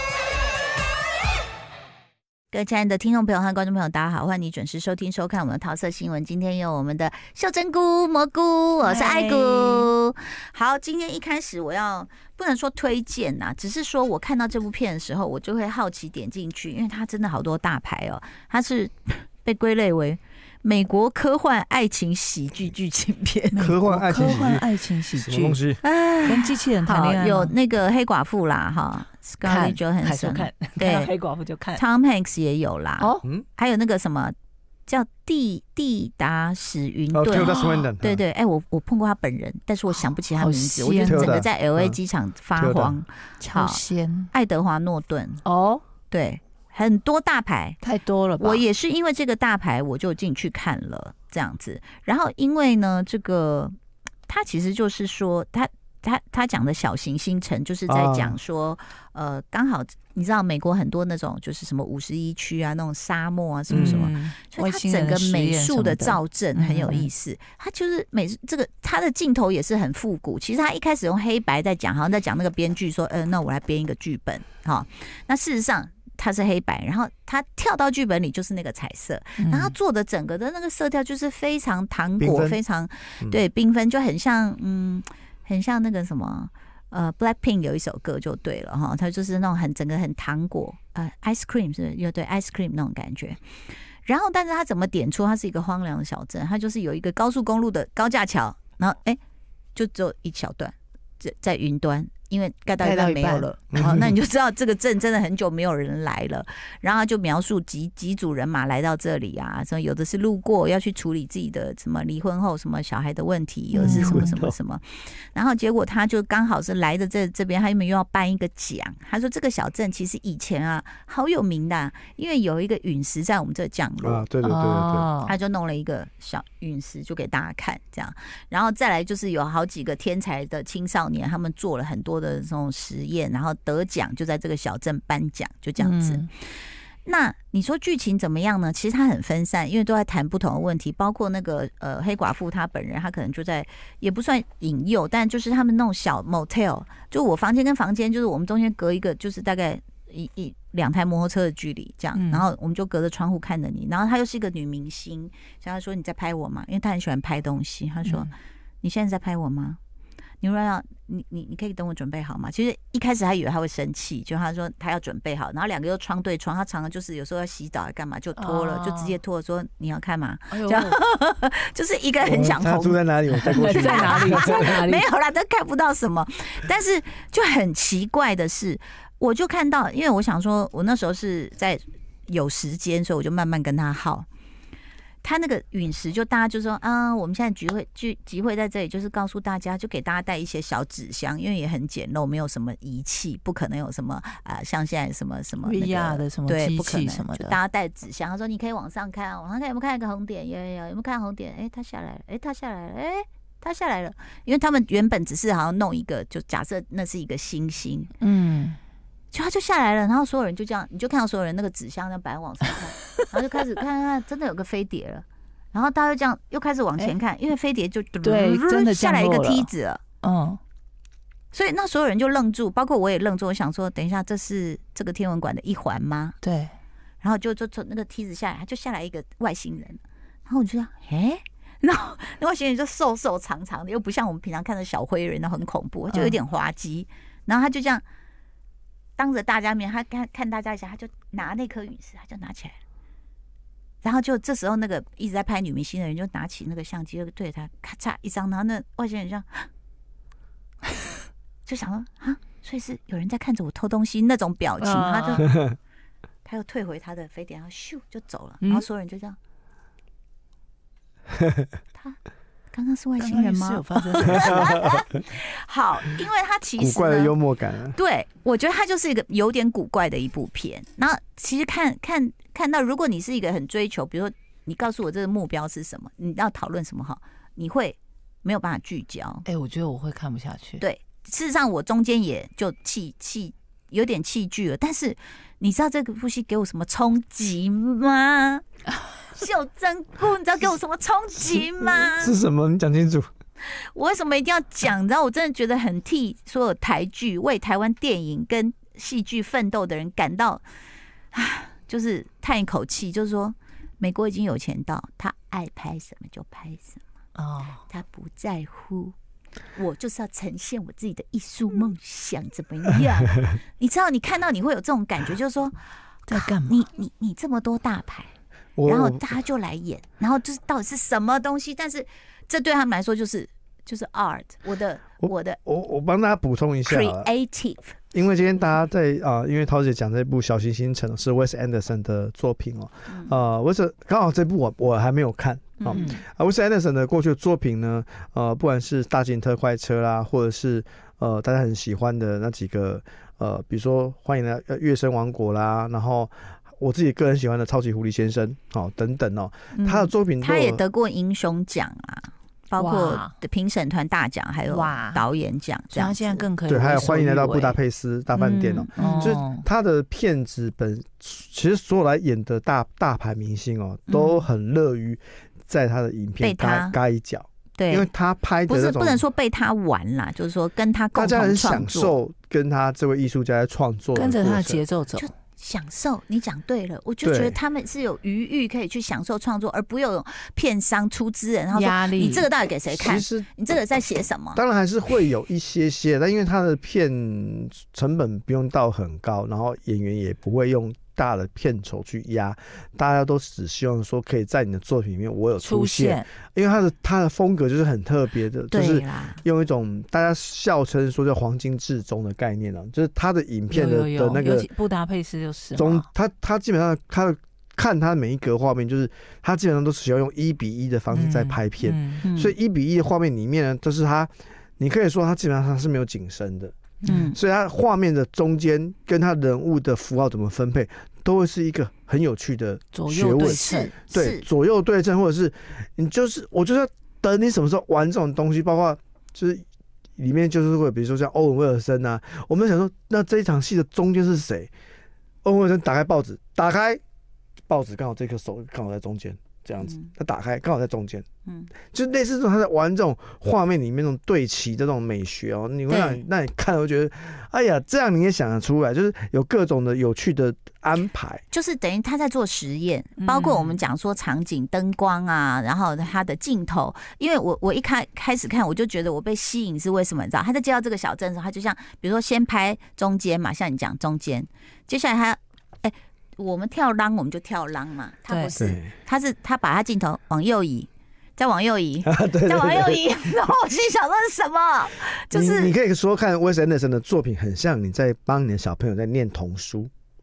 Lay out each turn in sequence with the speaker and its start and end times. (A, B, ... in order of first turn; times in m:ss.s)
0:02.5-0:23.7 A
0:08.8-0:09.9 B
0:23.5-0:25.6 B
0:23.6-0:25.8 C
0:25.8-0:31.1 A
0:26.2-0:27.5 B
0:29.4-0:31.8 B
0:31.8-0:34.3 A
0:33.0-0:33.2 B
0:34.9-0:43.8 A
0:37.1-0:38.2 C
0:37.3-0:37.8 B
0:39.9-0:41.4 B
0:41.0-0:42.0 C
0:42.6-0:43.0 C
0:43.4-0:44.3 B
0:44.3-0:45.4 A
0:45.4-0:45.8 B
0:46.1-0:47.8 A
0:47.8-0:48.6 B
0:48.4-0:53.7 A
0:54.3-1:33.4 A
0:57.9-0:58.4 C
1:03.7-1:07.1 B
1:03.7-1:04.1 C
1:19.4-1:19.7 B
1:22.2-1:22.6 C
1:34.0-1:39.2 A
1:39.7-2:04.2 A
1:42.8-1:43.5 B
1:43.7-1:44.1 C
1:53.7-1:54.3 B
1:53.8-1:54.5 C
2:04.0-2:05.1 C
2:04.4-2:05.3 B
2:05.2-2:39.8 A
2:15.8-2:16.3 B
2:32.1-2:32.5 B
2:38.0-2:38.3 B
2:40.4-3:04.2 A
2:48.4-2:49.2 B
2:50.5-2:51.0 B
2:52.2-2:54.7 C
2:53.4-2:55.0 B
3:05.2-3:28.1 A
3:15.6-3:17.6 B
3:28.2-3:28.8 B
3:29.3-3:40.0 A
3:38.2-3:39.7 B
3:40.2-3:40.6 B
3:41.5-3:46.4 A
3:46.4-3:46.7 B
3:47.2-3:58.0 A
3:56.1-3:56.4 B
3:59.2-4:02.8 A
4:04.0-4:09.7 A
4:11.6-4:15.6 A
4:14.8-4:15.5 B
4:16.4-4:19.4 A
4:21.4-4:21.7 C
4:22.7-4:27.3 A
4:23.2-4:24.8 B
4:24.3-4:25.0 C
4:26.8-4:28.0 C
4:27.9-4:39.4 A
4:39.4-4:40.8 B
4:40.8-4:48.6 A
4:49.3-4:52.4 A
4:51.8-4:53.3 C
4:53.6-5:00.6 A
5:01.3-5:07.0 A
5:07.4-5:07.8 B
5:07.9-5:09.1 A
5:09.8-5:15.8 A
5:16.3-5:16.8 B
5:16.3-5:18.3 A
5:18.8-5:19.2 C
5:18.8-5:25.6 A
5:25.2-5:27.3 C
5:26.8-5:28.0 A
5:28.1-5:50.8 C
5:33.1-5:33.3 A
5:35.8-5:36.1 A
5:35.9-5:36.2 B
5:49.7-5:56.4 A
5:52.8-5:53.3 B
5:54.7-5:55.2 B
5:55.9-5:57.8 B
5:56.7-6:09.2 C
5:58.4-5:59.4 A
5:58.9-5:59.6 B
6:04.1-6:04.4 A
6:06.4-6:06.9 A
6:07.8-6:08.1 A
6:08.7-6:12.1 A
6:11.1-6:14.8 C
6:14.1-6:15.3 B
6:15.2-6:24.6 A
6:17.2-6:17.6 C
6:21.7-6:22.5 B
6:22.9-6:23.4 C
6:24.5-6:44.7 C
6:35.6-6:36.3 B
6:38.7-6:39.4 A
6:43.7-6:46.1 B
6:45.8-6:56.7 C
6:51.1-6:52.2 B
6:52.2-6:52.5 A
6:57.0-6:57.4 B
6:57.0-6:57.4 A
6:57.3-7:09.6 C
7:02.9-7:03.9 B
7:03.4-7:04.4 A
7:10.2-7:14.7 C
7:15.4-7:17.0 C
7:17.7-7:21.2 C
7:19.8-7:20.1 A
7:21.8-7:31.4 C
7:25.9-7:26.2 A
7:31.5-7:55.7 A
7:33.2-7:33.8 B
7:48.3-7:48.5 B
7:48.6-7:48.9 C
7:52.0-7:53.0 C
7:55.3-7:59.9 C